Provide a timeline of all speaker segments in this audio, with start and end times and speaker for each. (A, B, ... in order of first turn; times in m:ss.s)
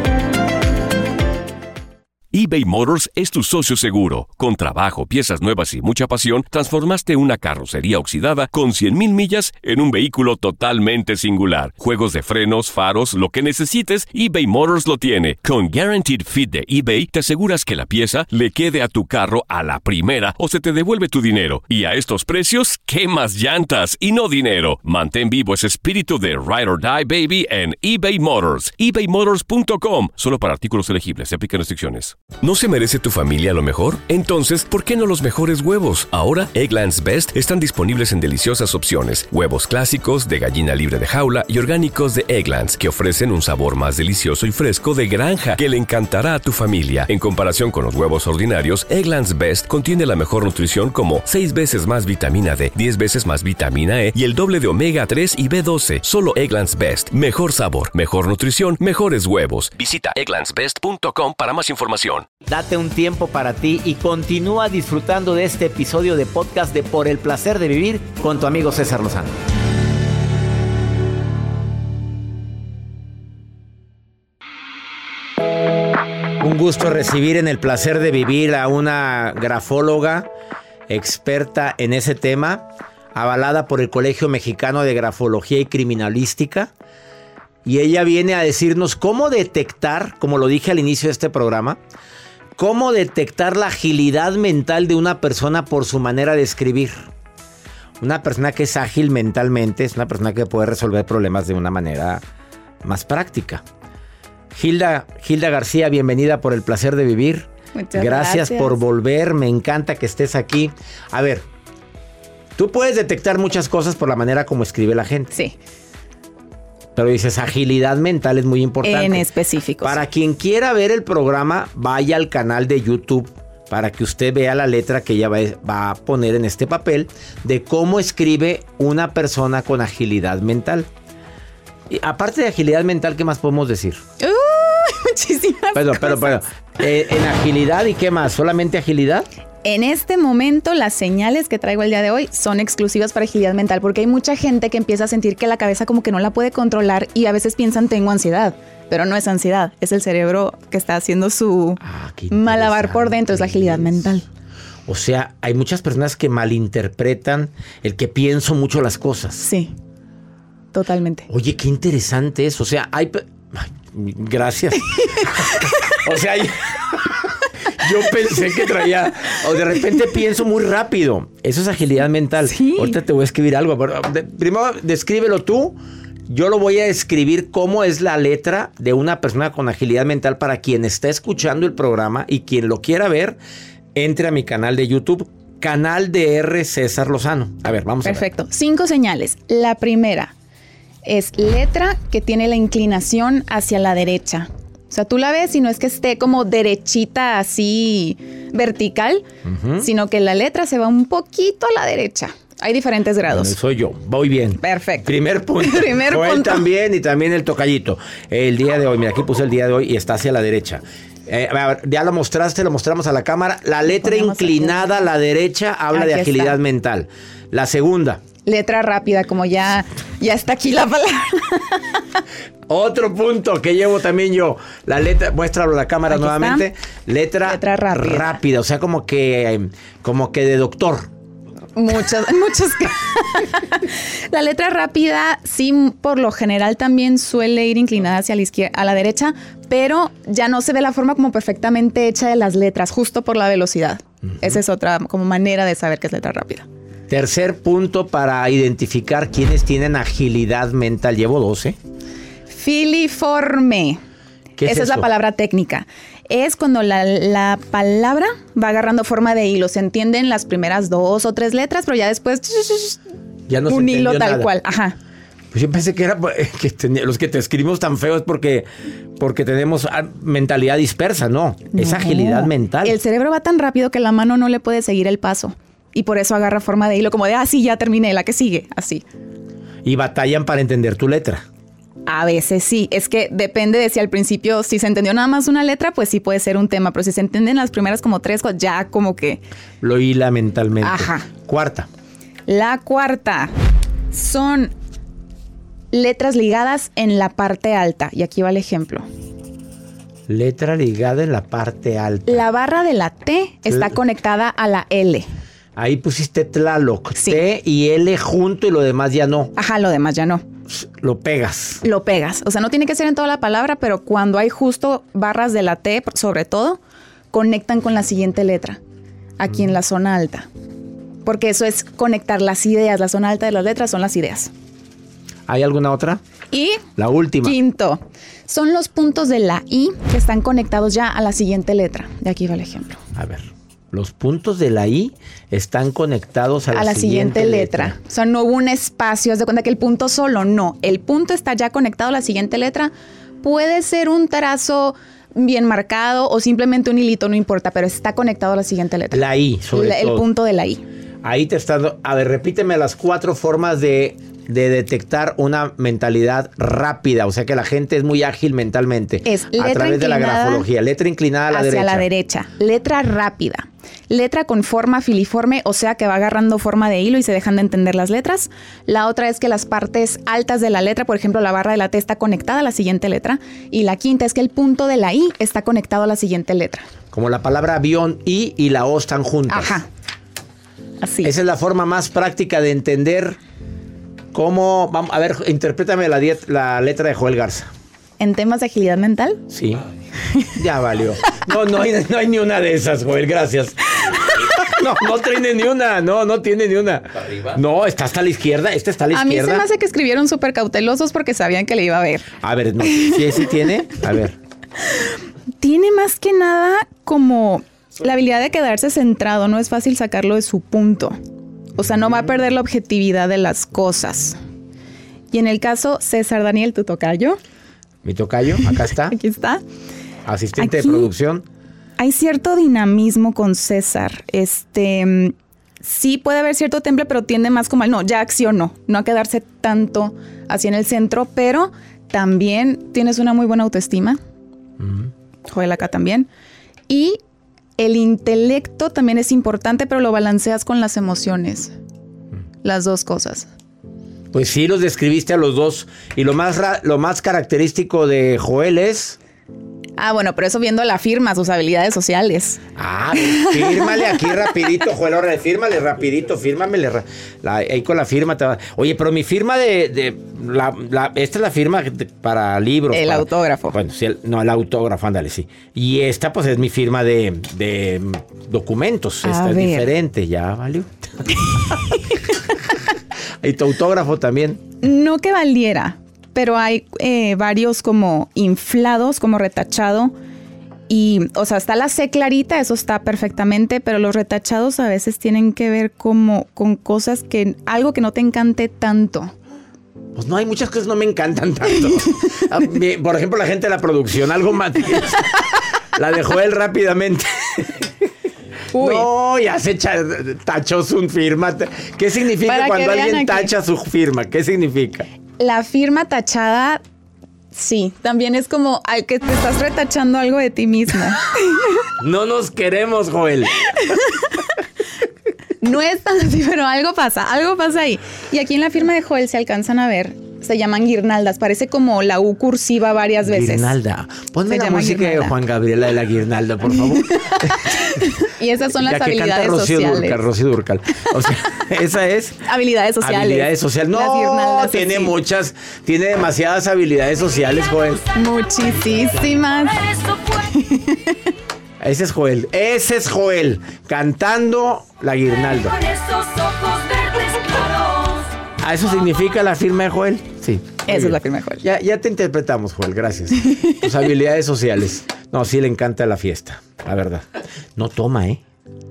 0:02.3-1:02.3 A
1:02.4-1:09.4 B
1:16.4-1:20.3 B
1:20.9-1:26.7 B
1:27.6-1:31.8 B
1:32.6-1:37.1 B
1:38.0-1:42.2 B
1:42.8-1:43.6 B
1:44.5-1:51.4 B
1:47.7-1:48.8 C
1:52.6-1:55.3 B
1:57.0-1:59.2 B
1:58.8-2:00.0 C
1:59.8-2:10.9 B
2:11.9-2:14.0 B
2:14.2-2:16.4 C
2:15.7-2:19.3 B
2:19.6-2:31.8 C
2:31.8-2:34.2 B
2:32.3-2:34.2 C
2:34.9-2:39.4 B
2:39.4-2:39.7 C
2:40.7-2:41.3 C
2:41.3-2:47.2 B
2:45.2-2:45.6 C
2:47.8-2:55.8 B
2:52.4-2:52.9 C
2:56.3-3:03.4 B
3:03.9-3:08.2 B
3:08.0-3:10.3 C
3:11.0-3:19.2 C
3:19.4-3:19.9 B
3:19.8-3:23.5 C
3:23.3-3:38.3 B
3:24.6-3:26.6 C
3:33.8-3:35.1 C
3:35.9-3:36.6 C
3:38.4-3:41.7 C
3:42.7-3:51.1 B
3:46.1-3:46.6 C
3:47.4-3:48.4 C
3:51.8-4:06.6 C
4:04.2-4:04.6 B
4:07.1-4:11.8 B
4:12.5-4:14.0 C
4:14.6-4:15.0 B
4:14.6-4:23.0 C
4:23.5-4:24.5 B
4:23.6-4:25.0 C
4:25.5-4:28.6 B
4:29.2-4:33.0 B
4:31.7-4:39.0 C
4:39.8-4:41.4 B
4:42.1-4:49.4 C
4:49.8-4:51.9 B
4:50.8-4:51.3 C
4:52.5-4:53.5 C
4:54.1-4:54.7 C
4:55.9-4:59.0 C
5:00.3-5:02.4 B
5:02.3-5:05.3 C
5:03.7-5:03.9 B
5:05.8-5:09.5 B
5:07.1-5:07.4 C
5:09.6-5:10.4 C
5:10.7-5:11.8 B
5:11.8-5:16.8 C
5:17.3-5:18.8 C
5:19.4-5:20.5 C
5:21.2-5:24.5 C
5:25.5-5:26.2 B
5:26.5-5:26.8 C
5:27.0-5:27.5 B
5:27.4-5:33.0 C
5:33.1-5:38.0 B
5:36.7-5:50.8 C
5:49.1-5:50.2 B
5:51.2-6:02.1 B
5:59.2-6:00.6 C
6:01.5-6:16.8 C
6:17.1-6:19.8 B
6:19.5-6:19.8 C
6:21.0-6:21.3 C
6:21.2-6:23.4 B
6:24.3-6:27.7 B
6:28.2-6:29.4 C
6:29.5-6:29.8 B
6:30.6-6:39.6 B
6:39.1-6:42.3 C
6:42.4-6:44.4 B
6:42.9-6:43.2 C
6:45.6-6:51.2 C
6:51.8-6:54.4 C
6:55.3-6:57.4 C
6:58.0-6:59.2 B
6:59.1-6:59.6 C
7:00.2-7:01.4 B
7:00.6-7:01.1 C
7:02.0-7:14.2 C
7:14.8-7:15.1 B
7:15.5-7:16.3 C
7:16.9-7:17.2 C
7:17.8-7:21.7 C
7:22.6-7:23.5 C
7:24.3-7:29.2 B
7:30.0-7:32.6 C
7:32.8-7:51.2 B
7:33.2-7:34.2 C
7:42.9-7:43.8 C
7:49.2-7:49.9 C
7:53.4-7:54.7 B
7:54.8-8:00.1 C
8:00.9-8:09.3 C
8:10.1-8:15.4 B
8:15.9-8:17.7 B
8:18.7-8:19.1 C
8:18.7-8:25.1 B
8:22.4-8:23.5 C
8:25.4-8:26.8 C
8:27.5-8:31.6 C
8:32.0-8:33.5 B
8:35.6-8:43.7 C
8:43.2-8:47.7 B
8:44.5-8:45.3 C
8:46.7-8:50.2 C
8:48.7-8:52.4 B
8:52.4-8:55.1 C
8:53.0-8:58.0 B
8:58.1-9:01.2 C
9:01.8-9:05.8 B
9:08.6-9:18.4 B
9:10.9-9:11.6 C